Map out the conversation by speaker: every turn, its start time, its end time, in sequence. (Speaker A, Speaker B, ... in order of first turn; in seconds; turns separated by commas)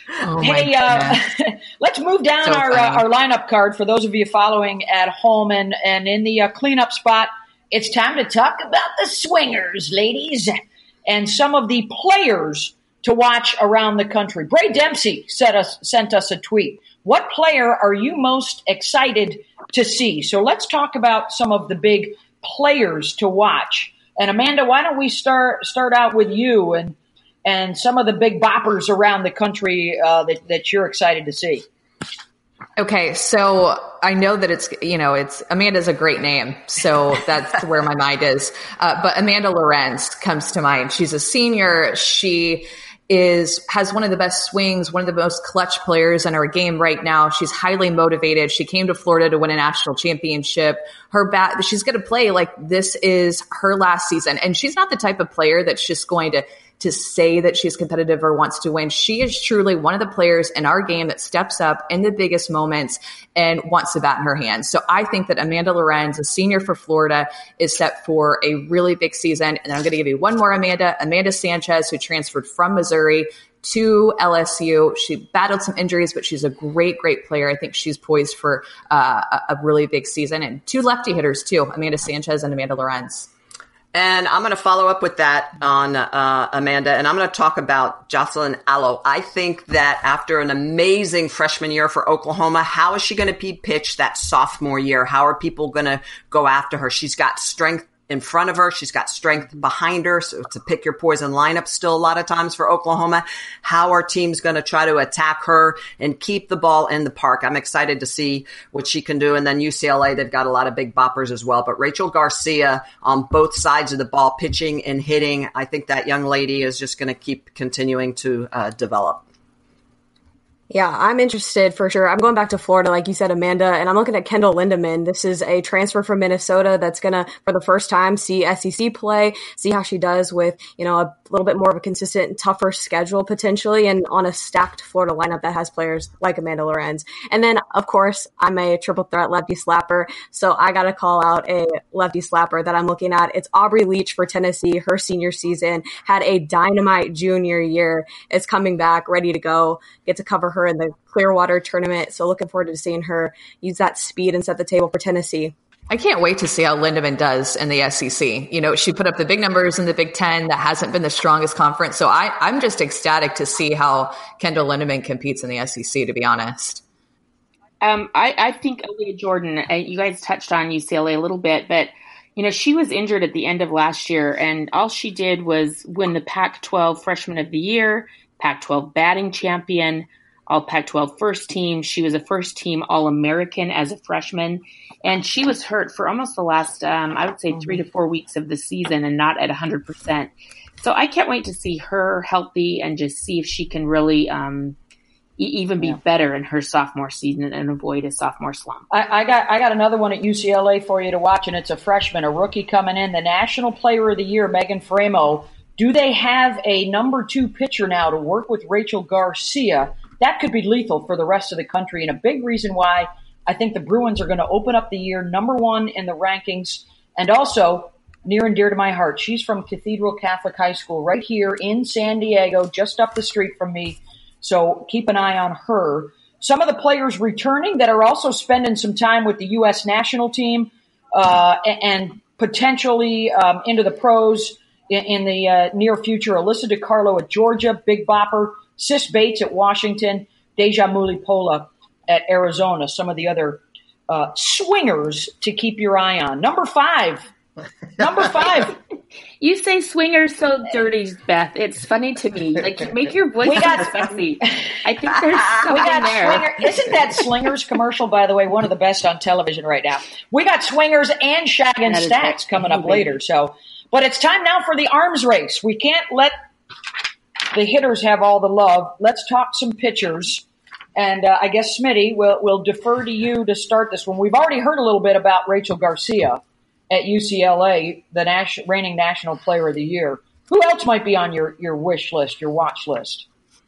Speaker A: 0.2-1.2, Speaker B: 0.4-31.6, Speaker A: 2.5-3.0, Speaker A: 32.8-83.3, Speaker C: 83.9-119.2, Speaker D: 120.7-155.5, Speaker A: 155.9-166.8, Speaker E: 167.8-194.8, Speaker E: 195.4-198.8, Speaker B: 198.9-247.2, Speaker B: 248.0-248.8, Speaker E: 249.4-256.6, Speaker B: 253.4-254.0, Speaker B: 255.7-266.3, Speaker E: 261.9-263.1, Speaker B: 267.5-283.2